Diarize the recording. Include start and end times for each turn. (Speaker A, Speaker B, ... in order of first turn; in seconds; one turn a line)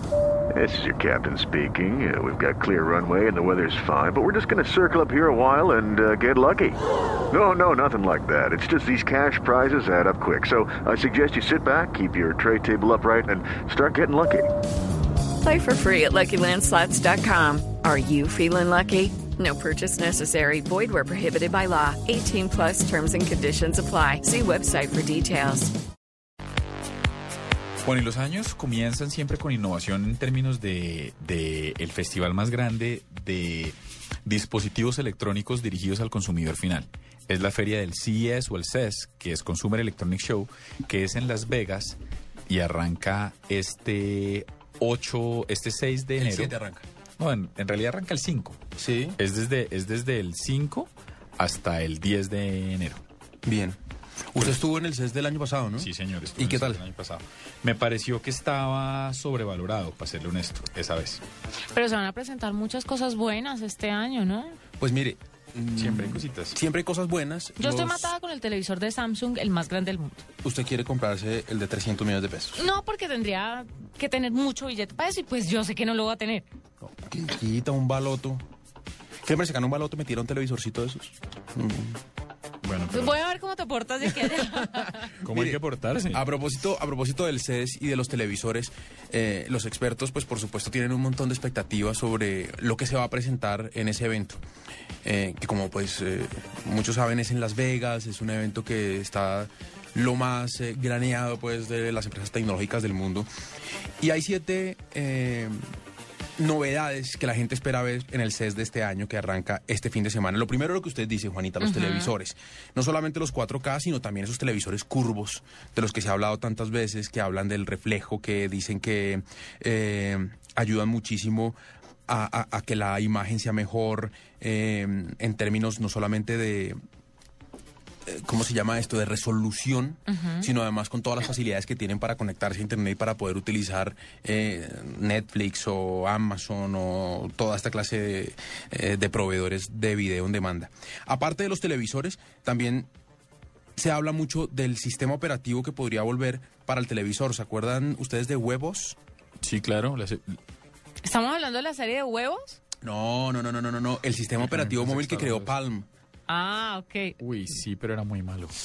Speaker A: 0.5-6.8
Speaker A: 7.3-14.5
Speaker B: 15.5-25.7
Speaker C: 27.8-46.5
Speaker D: 46.2-46.8
Speaker C: 47.2-48.6
Speaker D: 48.8-49.2
Speaker C: 49.2-53.0
Speaker D: 53.4-53.8
Speaker D: 54.3-56.8
Speaker C: 55.8-61.2
Speaker E: 61.7-64.6
Speaker D: 64.8-68.1
Speaker C: 65.8-66.6
Speaker E: 67.6-70.2
Speaker D: 70.4-72.7
Speaker E: 72.5-76.5
Speaker D: 76.8-78.4
Speaker D: 79.2-82.0
Speaker C: 82.6-83.2
Speaker E: 82.9-85.1
Speaker D: 84.3-85.6
Speaker C: 85.2-86.3
Speaker D: 86.1-94.4
Speaker D: 95.0-103.3
Speaker D: 104.0-105.6
Speaker D: 106.4-126.8
Speaker E: 111.6-112.1
Speaker D: 128.1-142.9
Speaker E: 130.1-130.5
Speaker D: 143.8-149.0
Speaker C: 149.4-150.4
Speaker E: 151.0-152.6
Speaker D: 152.8-155.9
Speaker C: 154.4-155.5
Speaker E: 156.3-157.2
Speaker C: 157.2-158.5